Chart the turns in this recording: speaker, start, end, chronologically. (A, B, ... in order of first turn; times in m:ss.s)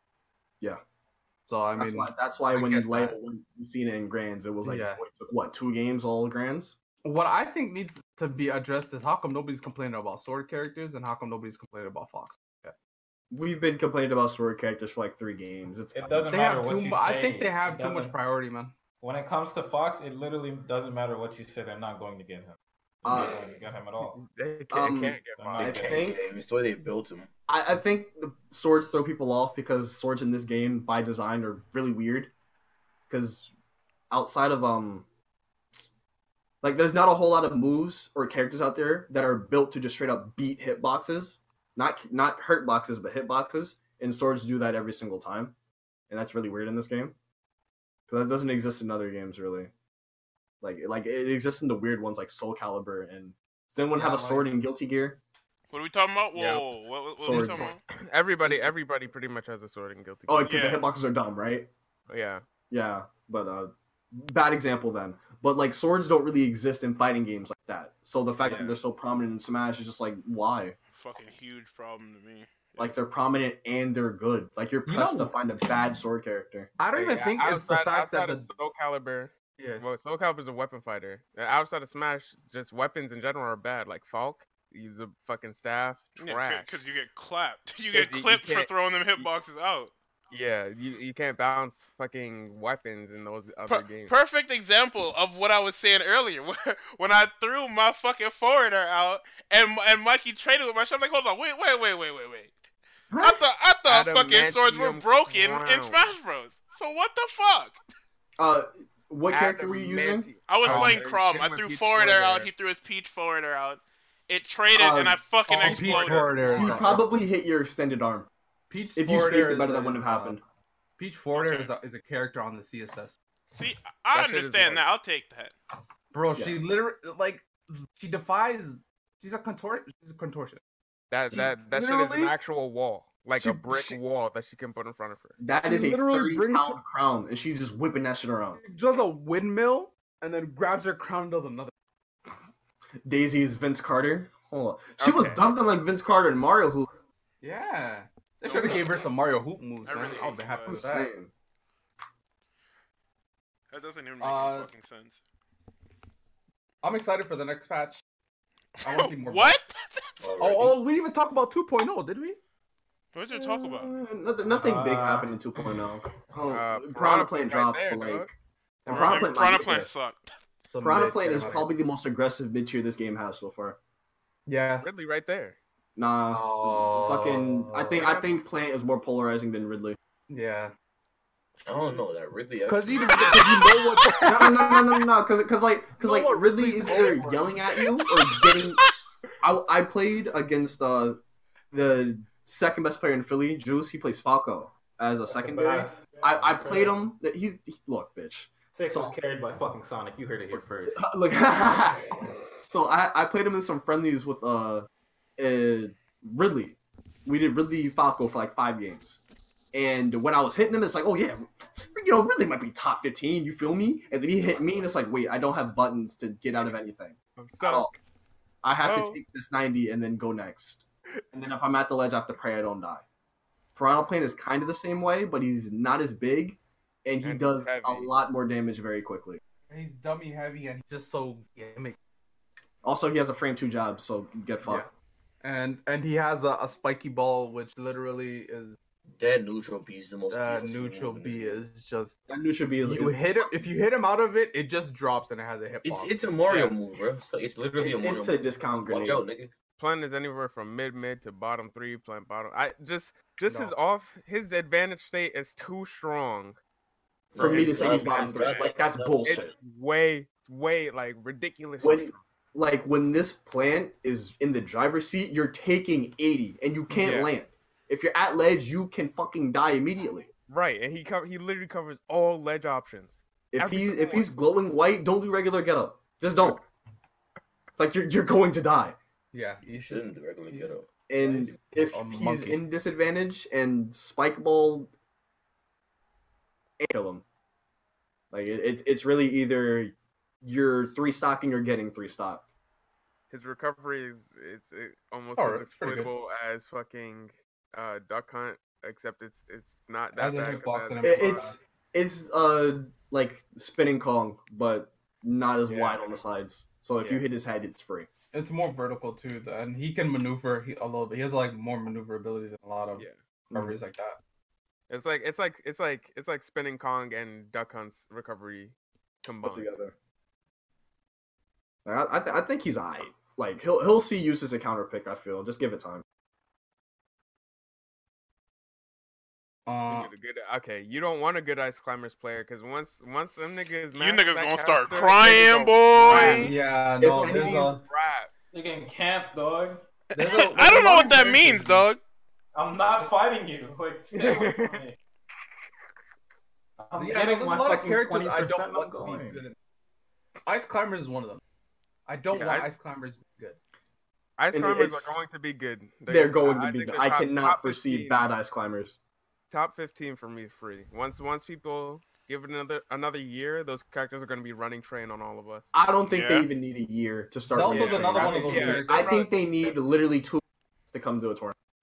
0:01.5-0:03.2 A
0:01.8-0:06.8 B
0:04.6-0:05.0 A
0:07.0-0:12.7 A
0:13.3-0:16.3 B
0:15.9-0:18.1 C
0:16.3-0:18.7 A
0:19.0-0:24.2 C
0:23.0-0:23.4 B
0:24.1-0:26.0 D
0:24.7-0:26.2 B
0:25.4-0:26.0 C
0:25.6-0:27.3 E
0:27.5-0:32.3 B
0:33.1-0:33.5 B
0:34.1-0:35.0 B
0:36.6-0:45.5 B
0:46.1-0:47.2 B
0:48.1-0:49.7 B
0:50.6-0:55.2 B
0:53.9-0:54.5 A
0:55.7-0:57.8 F
0:56.3-0:56.6 D
0:57.2-0:57.7 B
0:57.3-1:00.8 D
1:00.3-1:01.7 B
1:00.5-1:00.8 F
1:02.1-1:02.4 D
1:02.7-1:10.8 B
1:08.4-1:08.8 D
1:10.9-1:12.9 F
1:12.8-1:16.7 B
1:14.8-1:15.3 A
1:16.8-1:18.5 A
1:16.9-1:26.7 D
1:19.6-1:19.8 A
1:26.2-1:29.9 F
1:27.9-1:29.3 D
1:30.3-1:34.2 D
1:33.7-1:42.5 F
1:43.1-1:43.4 B
1:43.2-1:47.8 F
1:43.8-1:46.0 D
1:48.4-1:50.2 B
1:49.3-1:52.5 D
1:50.5-1:56.8 F
1:50.6-1:51.0 A
1:54.7-1:58.3 B
1:55.5-1:57.0 A
1:55.9-1:56.2 D
1:58.7-2:00.4 A
1:59.0-2:00.4 B
2:01.0-2:03.2 A
2:01.3-2:01.7 F
2:03.6-2:05.5 F
2:04.1-2:04.8 D
2:06.1-2:10.6 A
2:06.3-2:06.6 B
2:11.1-2:15.4 D
2:11.3-2:12.3 A
2:13.4-2:14.0 A
2:15.4-2:18.6 B
2:15.6-2:16.8 A
2:18.6-2:21.7 A
2:23.0-2:26.9 B
2:25.0-2:25.4 D
2:27.4-2:31.1 A
2:28.5-2:28.8 F
2:29.8-2:30.8 F
2:30.7-2:31.3 B
2:33.7-2:35.2 F
2:34.2-2:34.7 A
2:36.8-2:38.0 A
2:38.8-2:40.1 F
2:38.8-2:39.7 A
2:40.2-2:40.8 E
2:40.4-2:42.4 A
2:43.1-2:43.9 F
2:43.3-2:48.3 B
2:44.4-2:45.8 C
2:46.5-2:48.3 D
2:48.8-2:49.9 B
2:48.9-2:50.3 F
2:50.7-2:51.7 A
2:50.8-2:53.8 B
2:54.5-2:54.9 A
2:54.8-2:55.6 D
2:56.0-3:00.0 B
2:56.3-2:58.2 A
3:00.3-3:00.7 A
3:01.6-3:03.7 E
3:02.7-3:04.7 A
3:03.1-3:03.5 F
3:04.2-3:08.8 B
3:06.0-3:07.6 A
3:09.4-3:11.2 B
3:11.7-3:19.2 B
3:15.3-3:17.0 C
3:18.8-3:21.0 C
3:20.5-3:29.2 B
3:29.7-3:37.9 B
3:37.4-3:38.0 D
3:38.6-3:43.0 B
3:38.8-3:39.2 D
3:43.8-3:49.4 B
3:47.2-3:48.1 D
3:49.7-3:52.0 A
3:52.8-3:54.8 B
3:55.4-3:58.8 A
3:59.2-4:01.6 E
4:00.3-4:02.2 A
4:02.3-4:03.5 B
4:02.8-4:06.8 A
4:05.8-4:09.5 E
4:07.8-4:09.2 B
4:09.7-4:16.6 D
4:13.5-4:13.7 A
4:17.3-4:19.4 E
4:17.3-4:18.7 D
4:17.4-4:19.5 B
4:17.4-4:17.8 A
4:19.2-4:22.2 D
4:21.8-4:30.3 B
4:26.9-4:27.3 D
4:30.5-4:34.3 D
4:33.5-4:36.6 B
4:37.8-4:39.0 B
4:39.3-4:40.7 A
4:39.8-4:41.5 E
4:41.1-4:44.9 B
4:41.8-4:42.6 A
4:46.8-4:47.2 B
4:48.3-4:52.4 B
4:53.3-5:01.6 D
4:55.4-4:56.1 A
5:00.1-5:01.6 A
5:01.0-5:08.1 B
5:08.3-5:14.2 A
5:14.9-5:19.7 D
5:19.4-5:19.9 B
5:21.8-5:26.0 B
5:29.7-5:30.1 A
5:29.9-5:36.5 D
5:33.9-5:36.5 F
5:36.1-5:37.8 A
5:37.0-5:37.8 C
5:37.2-5:37.6 B
5:37.2-5:38.3 D
5:38.5-5:39.8 C
5:40.1-5:41.9 A
5:40.2-5:42.0 F
5:42.6-5:45.0 C
5:44.2-5:44.8 D
5:46.8-5:49.4 C
5:46.9-5:49.6 A
5:50.4-5:51.4 A
5:52.1-5:53.6 A
5:52.3-5:52.7 D
5:54.4-5:58.2 D
5:54.5-5:55.3 B
5:56.1-5:59.0 B
5:59.5-6:05.7 D
6:05.7-6:10.4 B
6:06.1-6:06.4 F
6:07.5-6:09.1 A
6:07.7-6:09.3 D
6:08.0-6:08.7 C
6:10.9-6:11.5 B